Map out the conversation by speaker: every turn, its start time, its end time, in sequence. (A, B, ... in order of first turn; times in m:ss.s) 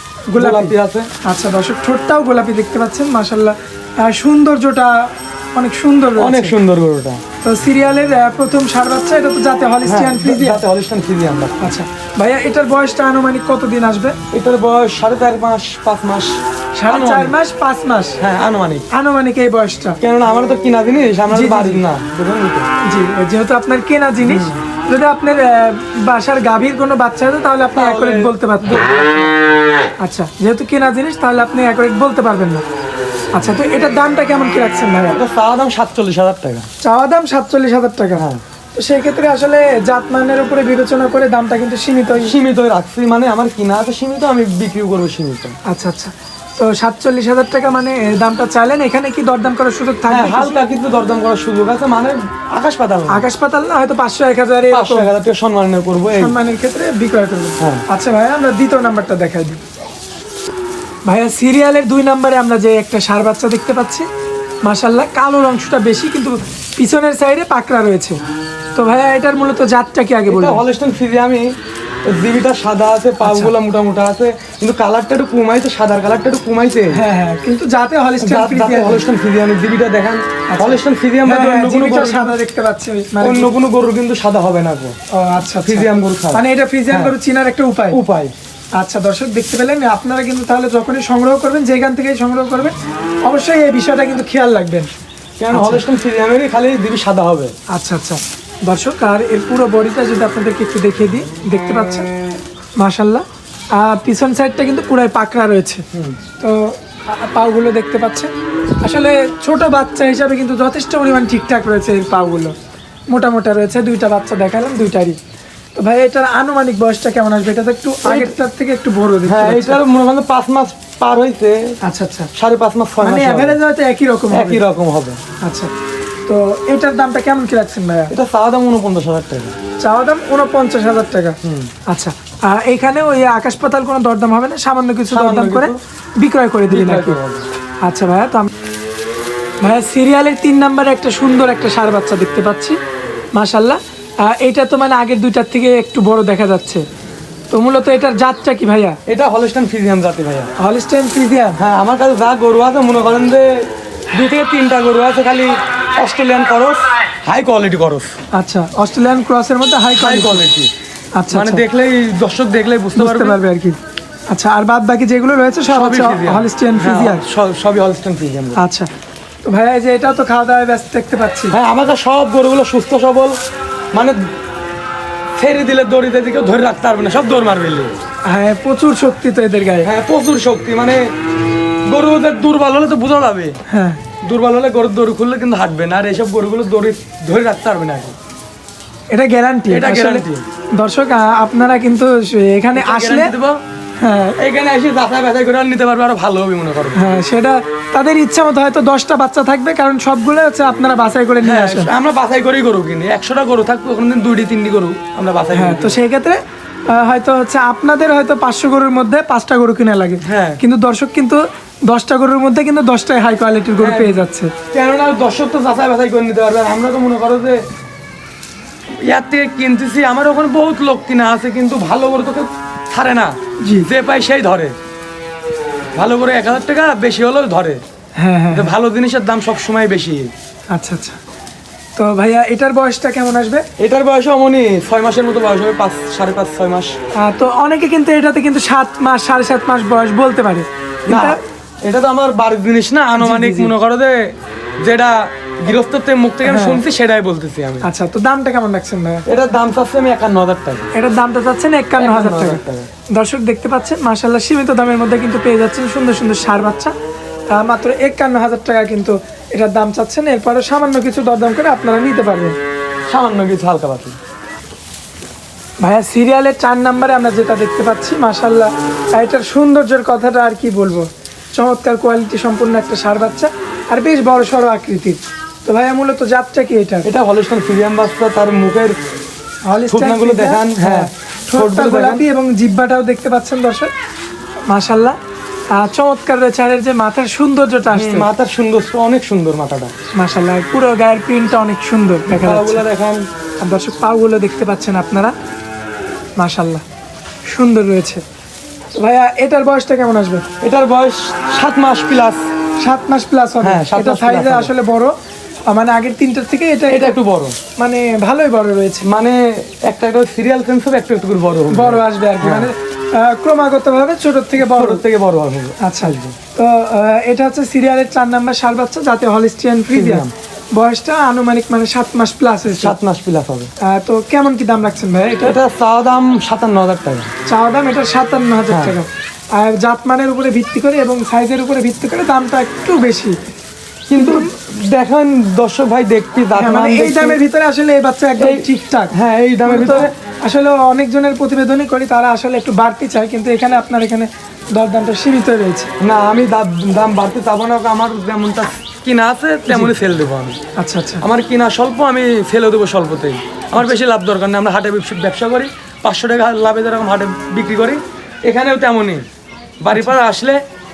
0:00.3-0:06.5 A
0:00.4-0:01.1 B
0:06.2-0:07.2 B
0:07.4-0:10.6 A
0:09.8-0:11.7 B
0:11.6-0:14.2 A
0:14.3-0:17.3 B
0:16.8-0:18.2 A
0:18.2-0:18.8 B
0:18.9-0:20.0 A
0:20.0-0:22.7 B
0:21.3-0:21.8 A
0:22.8-0:28.8 A
0:24.2-0:24.6 B
0:27.7-0:29.3 B
0:30.0-0:32.6 A
0:33.3-0:35.2 A
0:35.1-0:36.7 B
0:36.8-0:42.3 A
0:38.2-0:38.4 B
0:42.1-0:45.6 B
0:45.6-0:50.6 A
0:50.1-0:53.2 B
0:53.1-0:55.1 A
0:54.7-0:56.3 B
0:56.1-0:59.6 A
1:01.1-1:04.1 A
1:04.6-1:08.2 A
1:08.8-1:10.6 A
1:10.3-1:11.5 B
1:12.0-1:17.0 B
1:13.2-1:13.5 A
1:16.9-1:19.1 A
1:18.2-1:22.4 B
1:20.5-1:23.6 A
1:23.2-1:25.0 B
1:25.1-1:28.0 A
1:25.6-1:27.1 B
1:27.9-1:28.3 B
1:28.8-1:34.9 A
1:35.4-1:37.5 B
1:35.5-1:35.8 A
1:37.7-1:42.1 A
1:42.8-1:43.2 A
1:43.8-1:45.8 A
1:45.9-1:46.2 B
1:46.4-1:52.5 A
1:53.1-1:55.2 A
1:55.8-1:59.8 A
1:58.0-1:58.4 B
1:59.2-2:01.8 B
2:01.8-2:02.3 A
2:02.3-2:03.6 B
2:03.0-2:04.6 A
2:04.3-2:05.2 B
2:05.4-2:05.7 A
2:06.2-2:08.1 A
2:08.1-2:09.6 B
2:09.8-2:17.2 A
2:11.4-2:11.7 B
2:15.1-2:15.8 B
2:16.7-2:17.5 B
2:17.8-2:18.5 A
2:19.6-2:22.8 A
2:23.3-2:26.8 A
2:27.5-2:29.0 A
2:29.1-2:30.5 B
2:30.6-2:31.6 A
2:31.6-2:38.1 B
2:38.3-2:40.4 A
2:40.0-2:40.7 B
2:41.2-2:41.6 A
2:41.3-2:43.4 B
2:42.9-2:43.8 A
2:44.3-2:47.2 A
2:45.7-2:48.6 B
2:48.6-2:48.9 A
2:49.4-2:51.5 A
2:51.5-2:53.4 B
2:53.9-2:54.2 B
2:55.4-2:57.9 B
2:58.2-2:59.9 A
2:59.8-3:01.0 B
3:01.9-3:03.6 B
3:03.7-3:04.0 A
3:04.2-3:08.1 B
3:09.1-3:10.2 A
3:09.7-3:10.4 B
3:10.8-3:13.3 A
3:12.7-3:13.6 B
3:14.0-3:14.4 A
3:14.4-3:17.0 B
3:16.9-3:21.9 A
3:21.4-3:26.0 B
3:25.5-3:34.5 A
3:30.2-3:30.6 B
3:33.8-3:37.6 B
3:39.0-3:44.7 B
3:45.9-3:47.8 B
3:48.2-3:48.7 A
3:48.5-3:50.3 B
3:50.7-3:51.2 A
3:52.0-3:53.6 A
3:53.8-3:57.0 B
3:57.2-4:01.4 A
4:01.1-4:07.9 B
4:03.2-4:03.7 A
4:06.4-4:06.8 A
4:07.8-4:09.2 A
4:09.3-4:10.9 B
4:10.9-4:16.9 A
4:12.0-4:12.9 B
4:17.5-4:22.6 A
4:23.1-4:24.2 B
4:25.8-4:37.1 A
4:37.0-4:39.0 B
4:39.7-4:43.9 A
4:39.9-4:42.2 B
4:44.7-4:45.2 A
4:45.7-4:48.3 A
4:47.9-4:49.9 B
4:50.1-4:52.8 A
4:52.3-4:53.3 B
4:53.6-4:55.3 A
4:56.4-4:56.8 A
4:57.5-4:58.2 A
4:59.0-5:00.4 A
5:00.6-5:02.4 B
5:02.8-5:05.2 A
5:03.6-5:04.7 B
5:05.7-5:07.1 A
5:06.9-5:07.6 B
5:07.8-5:09.0 A
5:09.0-5:12.7 B
5:11.7-5:15.0 A
5:14.6-5:16.4 B
5:15.8-5:22.9 A
5:19.9-5:20.3 B
5:22.6-5:23.7 B
5:23.8-5:25.6 A
5:25.4-5:27.3 B
5:27.5-5:33.3 A
5:34.1-5:37.4 B
5:34.2-5:34.5 A
5:36.5-5:45.9 A
5:38.4-5:40.1 B
5:46.0-5:50.6 B
5:50.8-5:51.2 A
5:51.2-5:59.2 B
5:59.8-6:00.6 B